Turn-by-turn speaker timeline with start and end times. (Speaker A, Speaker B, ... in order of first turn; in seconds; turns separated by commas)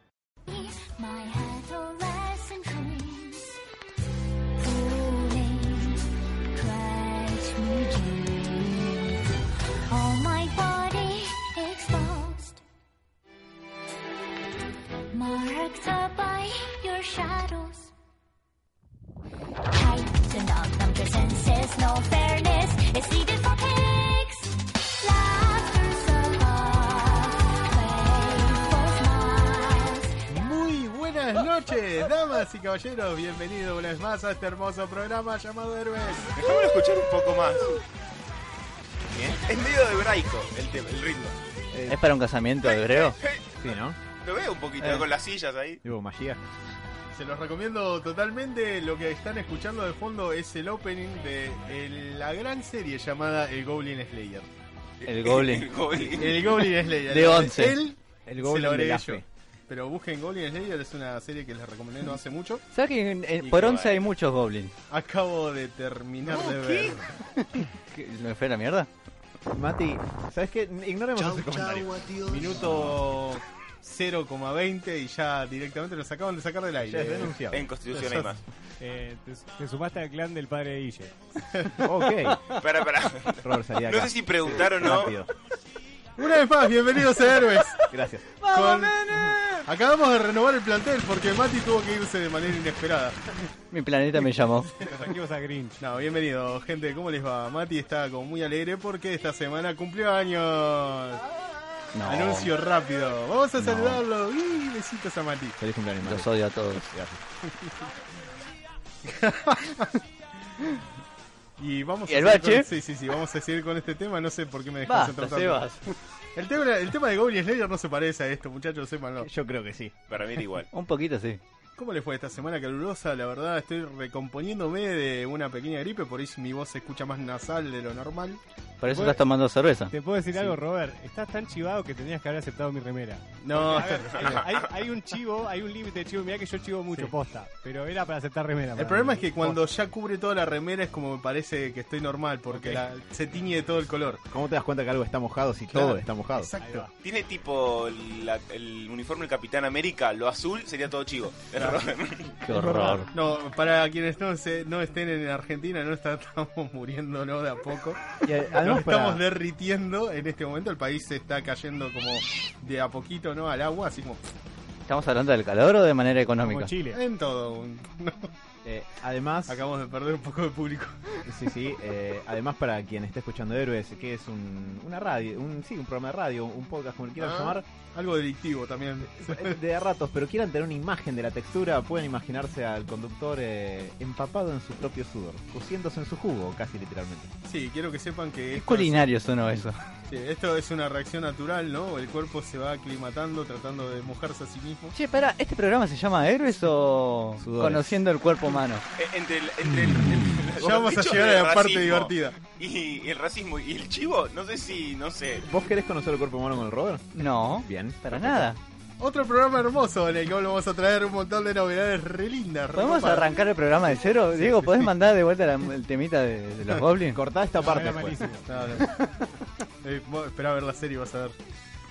Speaker A: 0.5-3.6, Speaker A: 4.6-9.2, Speaker A: 9.9-12.6, Speaker A: 15.1-17.9, Speaker A: 19.7-30.6, Speaker B: 30.3-36.4, Speaker C: 36.4-37.8, Speaker D: 39.1-39.4, Speaker C: 39.5-41.4, Speaker D: 41.7-42.0, Speaker E: 41.9-43.2, Speaker C: 42.6-45.8, Speaker D: 43.6-44.0, Speaker D: 45.8-46.4, Speaker B: 47.1-54.5, Speaker C: 55.0-56.7, Speaker E: 55.0-55.7, Speaker B: 56.1-62.6, Speaker E: 57.1-57.8, Speaker D: 58.3-59.2, Speaker E: 62.7-64.8, Speaker C: 63.4-64.1, Speaker B: 64.9-67.1, Speaker D: 66.3-67.0, Speaker E: 67.8-68.9, Speaker D: 69.5-73.0, Speaker B: 72.3-77.4, Speaker D: 76.8-77.7, Speaker C: 77.5-78.4, Speaker B: 77.9-78.3, Speaker F: 78.8-81.8, Speaker D: 81.8-82.4, Speaker C: 82.5-85.1, Speaker D: 83.4-85.3, Speaker B: 86.2-87.8, Speaker D: 87.9-89.7, Speaker B: 88.5-93.3, Speaker E: 93.7-94.7, Speaker F: 94.8-95.8, Speaker B: 95.8-101.2, Speaker E: 101.9-102.5, Speaker B: 102.0-105.6, Speaker D: 103.6-104.0, Speaker D: 105.6-107.2, Speaker E: 106.0-106.8, Speaker B: 109.0-110.0, Speaker B: 111.6-119.3, Speaker E: 112.1-112.7, Speaker E: 114.9-115.9, Speaker D: 119.2-120.0, Speaker C: 120.1-120.7, Speaker E: 120.7-121.4, Speaker B: 121.8-128.4, Speaker E: 128.8-129.9, Speaker F: 128.9-129.2, Speaker F: 129.9-139.6, Speaker B: 133.4-134.5, Speaker B: 138.8-144.2, Speaker F: 142.5-142.9, Speaker D: 144.3-146.5, Speaker B: 145.7-146.9, Speaker F: 146.6-146.9, Speaker C: 147.0-152.3, Speaker E: 152.4-153.1, Speaker D: 152.5-153.1, Speaker B: 153.1-164.2, Speaker D: 158.2-159.2, Speaker E: 164.9-166.7, Speaker F: 166.4-167.0, Speaker B: 166.9-168.3, Speaker D: 168.7-169.6, Speaker B: 169.5-171.2, Speaker D: 171.3-177.7, Speaker B: 177.2-179.6, Speaker D: 179.0-187.3, Speaker B: 187.4-189.1, Speaker E: 188.5-189.8, Speaker B: 190.1-194.9, Speaker E: 194.9-198.8, Speaker D: 197.4-197.9, Speaker C: 198.9-205.5, Speaker B: 200.6-202.4, Speaker D: 205.4-208.5, Speaker E: 207.2-208.6, Speaker B: 209.0-213.4, Speaker E: 212.8-217.2, Speaker B: 214.4-214.9, Speaker D: 217.1-218.3, Speaker F: 217.6-218.4, Speaker B: 218.5-219.3, Speaker B: 219.8-221.4